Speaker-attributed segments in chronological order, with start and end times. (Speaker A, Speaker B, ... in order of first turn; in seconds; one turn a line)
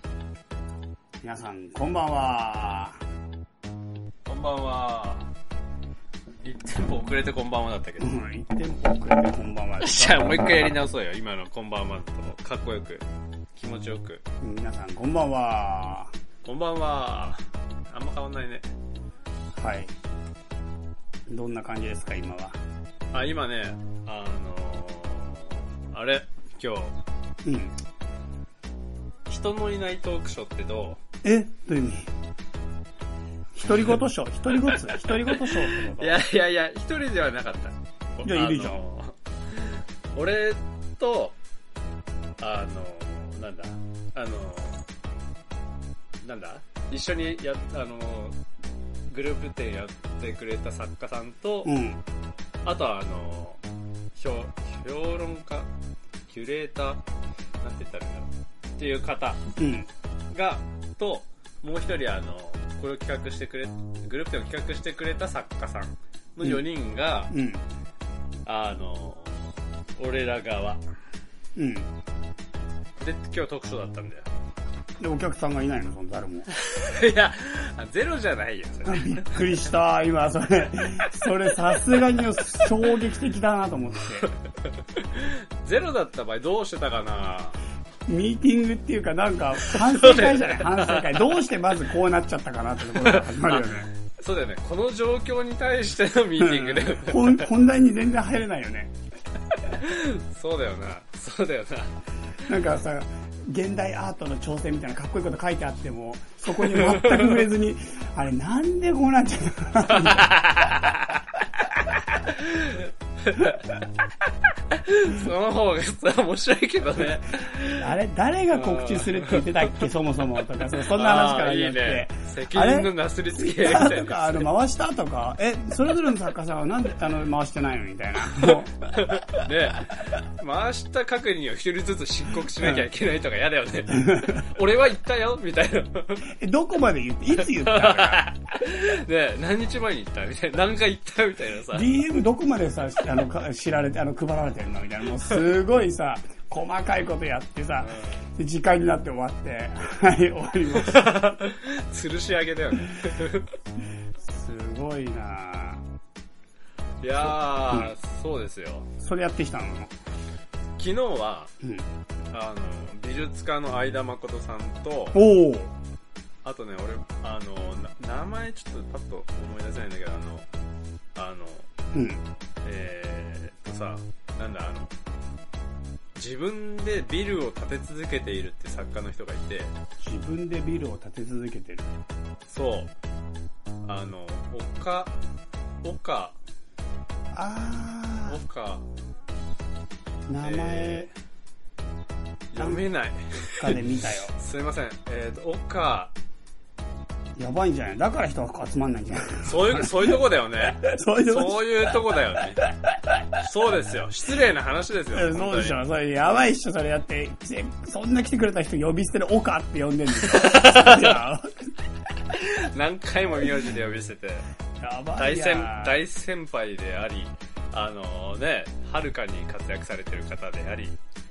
Speaker A: 1.2-3.0
Speaker B: 4.2-5.3
Speaker B: 6.4-8.1
Speaker A: 8.0-10.3
Speaker B: 9.8-14.2
Speaker A: 14.4-16.1
Speaker B: 16.4-18.7
Speaker A: 19.6-19.9
Speaker A: 21.3-22.6
Speaker B: 23.1-26.9
Speaker A: 27.4-27.7
Speaker B: 29.3-31.0
Speaker A: 31.2-32.1
Speaker A: 33.5-36.2
Speaker B: 34.6-41.4
Speaker A: 38.2-38.8
Speaker B: 42.4-44.8
Speaker B: 46.2-48.4
Speaker B: 49.1-51.7
Speaker A: 51.6-52.0
Speaker B: 52.6-53.6
Speaker B: 54.1-55.7
Speaker B: 56.3-57.0
Speaker B: 57.6-59.4
Speaker A: 59.6-59.9
Speaker B: 60.3-67.3
Speaker A: 67.3-67.6
Speaker B: 68.5-69.5
Speaker B: 70.0-70.8
Speaker A: 71.5-71.9
Speaker B: 73.0-74.3
Speaker A: 75.0-76.5
Speaker B: 76.5-79.4
Speaker A: 78.8-84.3
Speaker B: 85.0-87.6
Speaker A: 88.1-93.9
Speaker B: 89.7-91.4
Speaker B: 93.0-97.5
Speaker A: 96.4-98.9
Speaker B: 99.8-101.9
Speaker A: 102.5-110.8
Speaker B: 106.9-107.2
Speaker B: 110.1-110.9
Speaker B: 112.3-113.8
Speaker B: 114.7-117.9
Speaker A: 117.8-128.7
Speaker B: 118.5-119.8
Speaker B: 120.6-124.5
Speaker B: 128.4-136.3
Speaker A: 132.6-132.8
Speaker A: 133.9-134.4
Speaker A: 136.3-138.2
Speaker B: 137.5-141.9
Speaker A: 141.7-151.1
Speaker B: 147.8-148.2
Speaker B: 150.7-153.5
Speaker A: 154.2-155.8
Speaker B: 157.0-158.9
Speaker A: 157.2-157.9
Speaker A: 159.0-159.9
Speaker B: 160.8-161.5
Speaker B: 162.3-165.2
Speaker A: 165.1-165.7
Speaker B: 166.4-170.4
Speaker B: 171.1-171.7
Speaker A: 171.9-172.2
Speaker B: 172.6-174.9
Speaker B: 176.2-179.7
Speaker A: 180.0-181.9
Speaker B: 182.5-182.9
Speaker B: 183.8-185.1
Speaker B: 185.8-186.3
Speaker A: 187.3-188.4
Speaker B: 188.3-188.8
Speaker A: 190.3-191.1
Speaker B: 190.4-191.1
Speaker B: 192.5-196.1
Speaker A: 193.5-194.3
Speaker A: 197.3-201.9
Speaker B: 199.4-202.6
Speaker A: 202.6-203.2
Speaker B: 203.4-205.8
Speaker A: 205.1-211.7
Speaker B: 210.3-211.2
Speaker B: 212.3-214.5
Speaker A: 214.8-216.0
Speaker B: 215.2-220.9